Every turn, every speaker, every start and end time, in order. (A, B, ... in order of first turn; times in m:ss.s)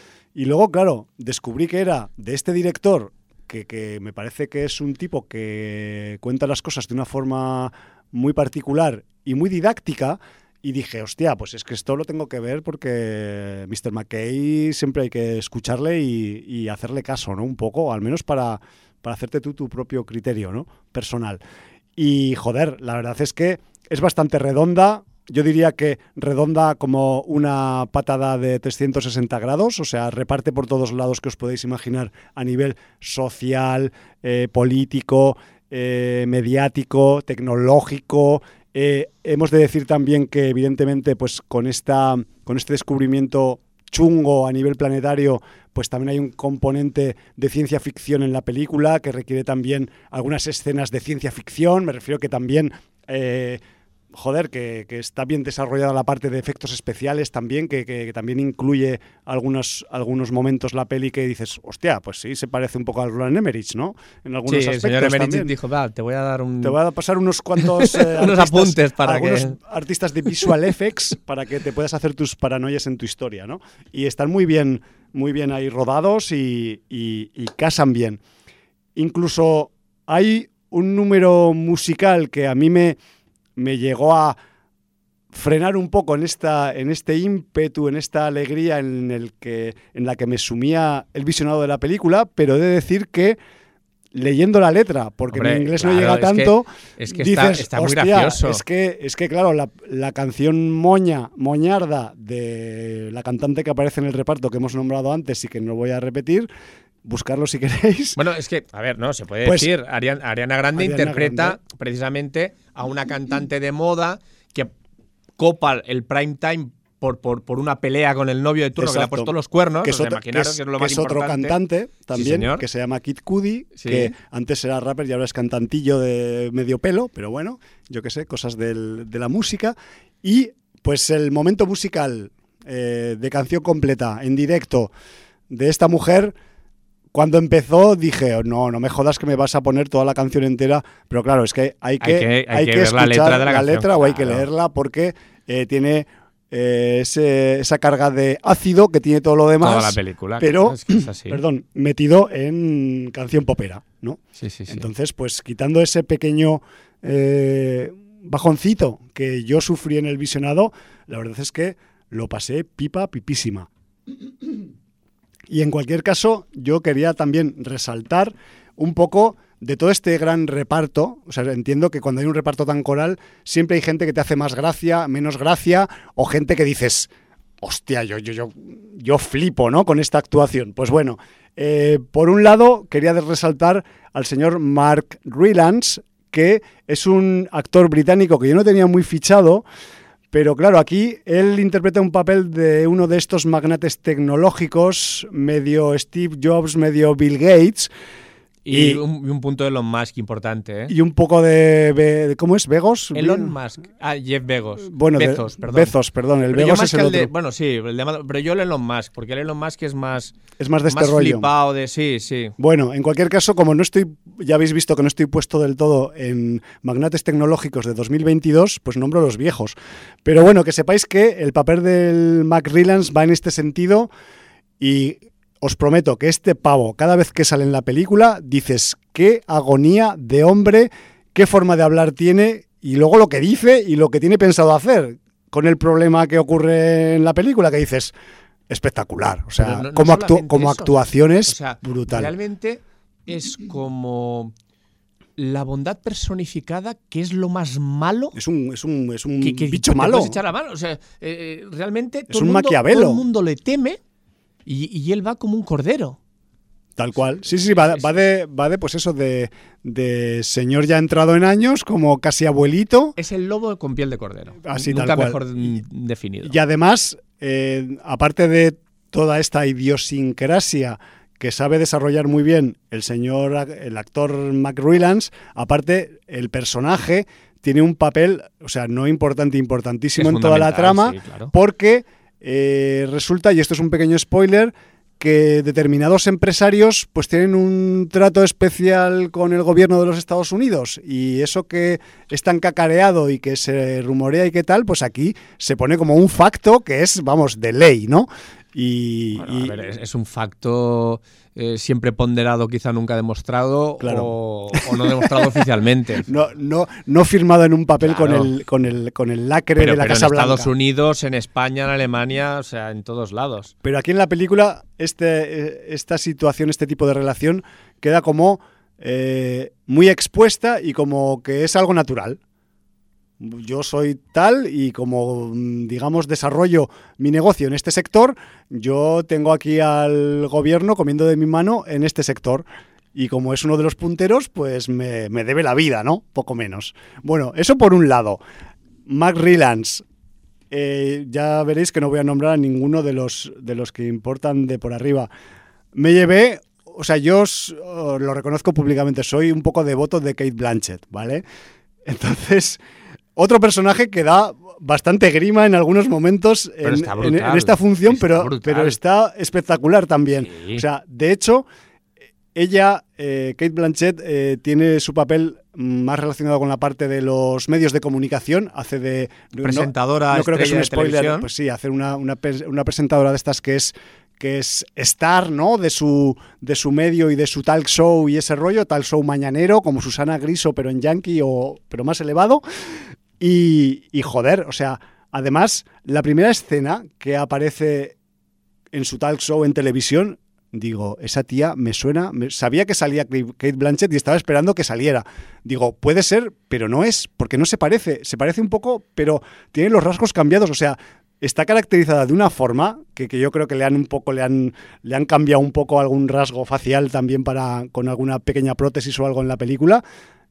0:00.3-0:21.4 A
0:22.0-0:53.6 A
0:54.1-1:05.5 A
1:04.5-1:06.8 B
1:06.6-1:18.2 A
1:07.6-1:09.6 B
1:19.0-1:23.0 A
1:23.6-1:24.4 A
1:25.3-1:33.4 A
1:34.1-1:46.5 A
1:35.3-1:38.6 B
1:47.0-1:48.2 A
1:48.2-1:54.7 B
1:49.4-1:49.7 A
1:50.7-1:51.6 A
1:55.4-2:01.6 B
1:58.8-2:14.9 A
2:02.1-2:02.6 B
2:03.8-2:04.1 B
2:15.5-2:16.3 A
2:17.1-2:43.7 A
2:22.0-2:24.4 B
2:29.6-2:31.4 B
2:34.4-2:34.9 B
2:45.5-3:09.6 A
3:10.3-3:17.9 A
3:18.6-3:20.9 B
3:18.7-3:19.0 A
3:20.9-3:23.5 A
3:23.1-3:25.9 B
3:24.8-3:27.3 A
3:26.5-3:30.3 B
3:30.6-3:31.5 A
3:30.9-3:32.5 B
3:32.6-3:44.1 A
3:44.8-3:58.1 A
3:58.7-4:02.3 A
3:59.6-4:04.5 B
4:05.4-4:08.4 B
4:08.3-4:10.4 A
4:09.4-4:14.0 B
4:12.3-4:13.2 A
4:14.6-4:16.2 B
4:17.0-4:23.2 A
4:17.7-4:18.1 B
4:23.2-4:26.6 B
4:24.6-4:25.8 A
4:26.4-4:59.8 A
4:40.2-4:41.5 B
4:59.3-5:06.3 B
5:04.0-5:05.6 A
5:06.2-5:10.7 A
5:08.0-5:08.5 B
5:09.8-5:13.7 B
5:13.8-5:22.4 A
5:23.4-5:38.4 A
5:39.0-5:40.0 A
5:40.7-5:45.3 A
5:45.9-5:51.4 A
5:52.0-5:52.8 A
5:53.4-6:01.6 A
5:56.8-5:59.0 B
6:00.4-6:00.8 B
6:02.5-6:28.1 A
6:09.6-6:11.5 B
6:28.9-6:50.0 A